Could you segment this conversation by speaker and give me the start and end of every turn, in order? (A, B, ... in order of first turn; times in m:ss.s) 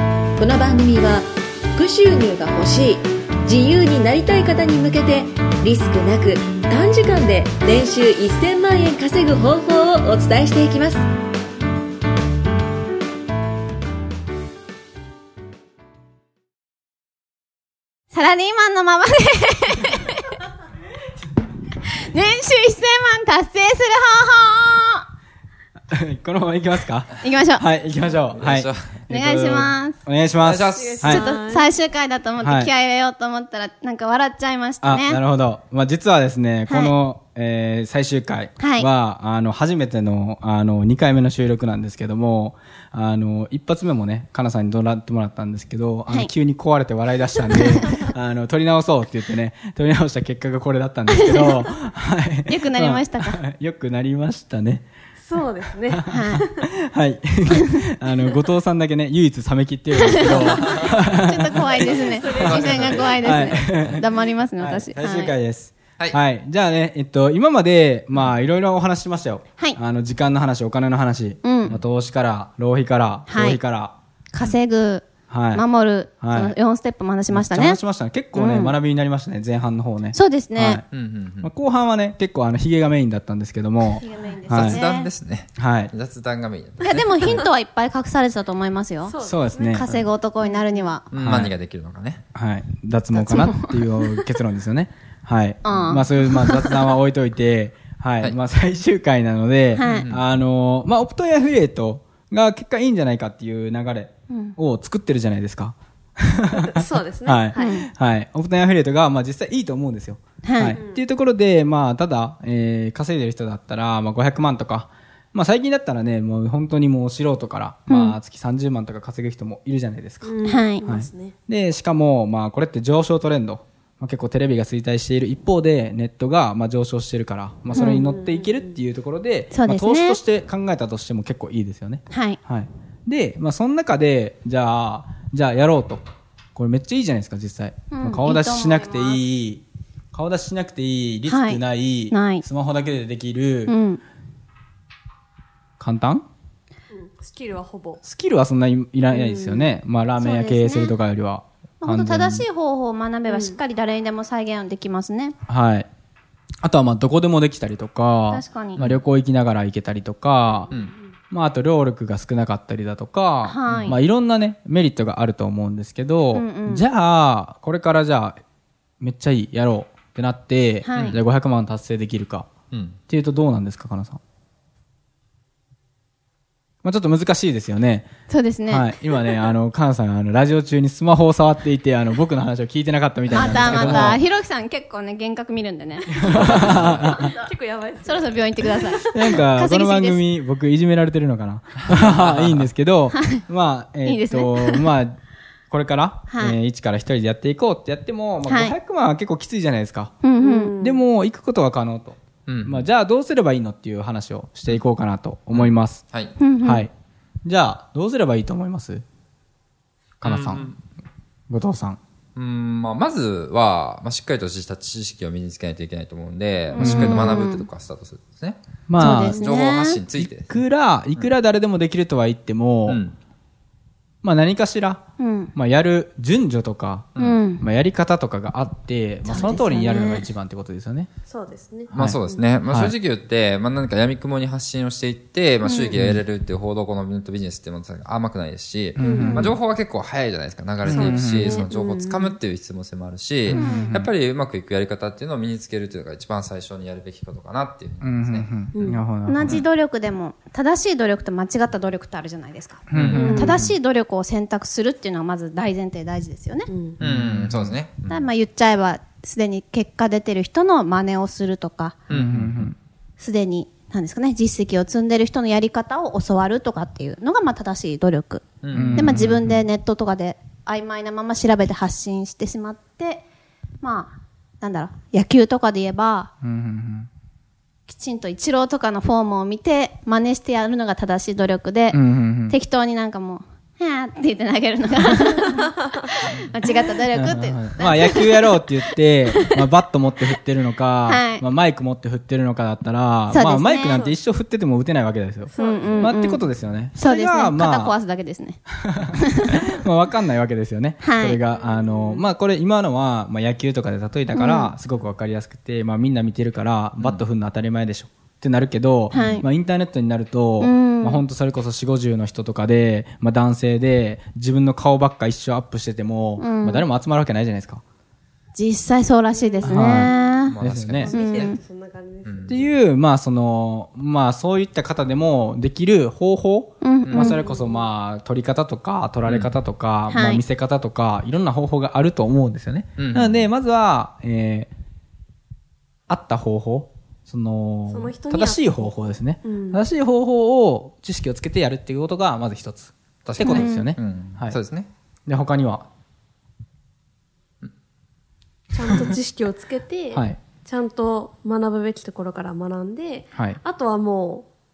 0:00.4-0:11.0 A
0:18.1-0:20.2 B
0:21.9-0:25.0 B
0:25.9-0:31.2 C
0:27.2-0:27.7 B
0:28.3-0:29.0 D
0:29.1-0:30.0 B
0:30.4-0:31.2 D
0:30.8-0:31.7 E
0:31.0-0:35.2 B
0:32.4-0:32.7 C
0:34.8-0:54.9 C
0:36.7-0:37.0 B
0:38.6-0:38.9 B
0:47.5-0:48.0 B
0:51.1-0:51.7 B
0:52.5-0:53.4 B
0:55.2-0:56.4 E
0:55.9-1:01.8 C
0:56.1-0:56.4 B
1:00.0-1:05.3 B
1:01.6-1:03.6 E
1:02.3-1:04.0 D
1:02.4-1:02.7 C
1:03.2-1:14.0 C
1:11.4-1:11.8 B
1:13.3-1:13.6 B
1:14.3-1:17.8 B
1:15.3-1:15.6 C
1:16.2-1:16.6 C
1:17.3-1:20.9 C
1:18.3-1:18.8 B
1:20.1-1:20.8 B
1:20.9-1:21.5 D
1:21.4-1:24.8 C
1:23.9-1:25.1 B
1:24.5-1:27.5 D
1:25.6-1:25.9 C
1:26.9-1:31.1 B
1:29.1-1:29.8 E
1:29.2-1:30.1 C
1:30.4-1:30.9 E
1:31.1-1:32.2 D
1:31.2-1:31.5 C
1:32.4-2:16.0 C
1:33.1-1:34.2 B
1:35.6-1:36.9 B
1:39.7-1:40.0 B
1:39.9-1:40.2 D
1:44.3-1:44.6 B
1:46.5-1:47.8 E
1:47.6-1:47.8 B
1:50.4-1:50.8 B
1:57.9-1:58.2 B
2:00.2-2:01.4 E
2:00.4-2:00.8 B
2:07.7-2:08.8 E
2:07.8-2:08.0 B
2:09.5-2:10.2 B
2:12.1-2:12.4 B
2:16.6-2:23.8 C
2:17.9-2:19.2 B
2:21.3-2:22.4 B
2:23.7-2:24.0 B
2:25.8-2:26.3 C
2:26.9-2:28.0 E
2:28.0-2:32.5 C
2:29.1-2:29.7 E
2:30.2-2:31.0 B
2:31.8-2:35.4 B
2:33.3-2:33.6 E
2:35.5-2:35.9 C
2:36.6-2:40.7 C
2:38.3-2:38.8 B
2:38.8-2:39.0 D
2:41.3-2:48.4 C
2:43.4-2:44.0 B
2:43.7-2:43.9 D
2:46.3-2:46.8 B
2:49.0-2:52.5 C
2:50.8-2:51.2 B
2:52.7-2:53.0 D
2:53.1-2:54.2 C
2:56.8-2:58.1 C
2:58.3-2:58.9 B
2:58.7-3:04.2 C
3:03.3-3:07.4 B
3:03.5-3:04.2 D
3:06.1-3:07.3 C
3:06.5-3:07.0 D
3:07.0-3:08.4 E
3:08.1-3:10.2 B
3:09.1-3:15.2 C
3:11.9-3:12.7 D
3:13.1-3:13.4 B
3:14.0-3:14.9 B
3:15.7-3:20.2 C
3:16.3-3:16.6 B
3:18.4-3:18.8 B
3:20.2-3:20.8 B
3:20.4-3:21.0 E
3:20.8-3:26.1 C
3:22.5-3:22.9 D
3:25.5-3:26.4 D
3:26.4-3:26.9 B
3:26.6-3:26.9 C
3:27.4-3:29.0 C
3:30.2-3:30.8 D
3:30.2-3:30.8 C
3:31.5-3:32.0 C
3:32.4-3:40.6 D
3:36.7-3:37.7 B
3:36.8-3:37.4 C
3:38.9-3:39.5 C
3:39.0-3:40.0 B
3:40.2-3:43.0 C
3:42.9-3:43.2 D
3:44.2-3:45.0 C
3:45.2-3:45.5 B
3:45.6-3:51.1 C
3:47.2-3:47.4 D
3:47.2-3:47.6 B
3:49.2-3:50.3 B
3:51.3-3:52.5 E
3:51.9-3:53.0 C
3:51.9-4:08.5 D
3:55.6-3:55.9 B
3:56.0-3:56.2 C
3:59.0-3:59.6 C
3:59.0-3:59.6 E
4:00.8-4:01.6 C
4:00.8-4:02.4 E
4:03.5-4:04.1 C
4:03.5-4:04.0 B
4:08.0-4:09.6 C
4:08.8-4:09.0 E
4:09.3-4:16.7 B
4:12.9-4:13.8 C
4:12.9-4:13.3 D
4:13.1-4:13.5 E
4:16.7-4:17.0 E
4:17.0-4:18.3 D
4:17.0-4:17.8 C
4:18.1-4:22.0 B
4:22.1-4:22.6 D
4:22.1-4:22.8 C
4:23.2-4:33.3 B
4:28.6-4:29.6 D
4:28.7-4:29.6 C
4:33.8-4:36.3 B
4:36.4-4:37.1 C
4:37.9-4:48.7 B
4:41.9-4:42.6 C
4:47.1-4:58.0 C
4:51.1-4:51.4 B
4:53.3-4:54.0 B
4:55.5-4:56.1 E
4:55.6-4:58.6 B
4:58.8-5:17.8 C
4:59.2-4:59.6 B
5:01.0-5:01.4 B
5:01.5-5:02.2 E
5:04.3-5:04.7 B
5:07.0-5:07.2 D
5:09.1-5:09.4 B
5:10.6-5:11.2 B
5:16.4-5:16.9 B
5:18.6-5:21.6 B
5:19.4-5:20.3 E
5:19.6-5:21.2 C
5:20.5-5:21.6 D
5:21.0-5:22.7 E
5:22.2-5:22.6 D
5:22.5-5:34.7 C
5:26.8-5:27.4 B
5:27.4-5:27.9 E
5:29.3-5:29.5 D
5:30.1-5:30.4 B
5:33.0-5:33.5 D
5:36.1-5:44.6 C
5:37.9-5:39.8 E
5:43.2-5:44.9 D
5:43.4-5:43.9 B
5:45.3-5:45.9 C
5:48.7-5:54.5 E
5:50.1-5:50.4 C
5:53.4-5:53.6 C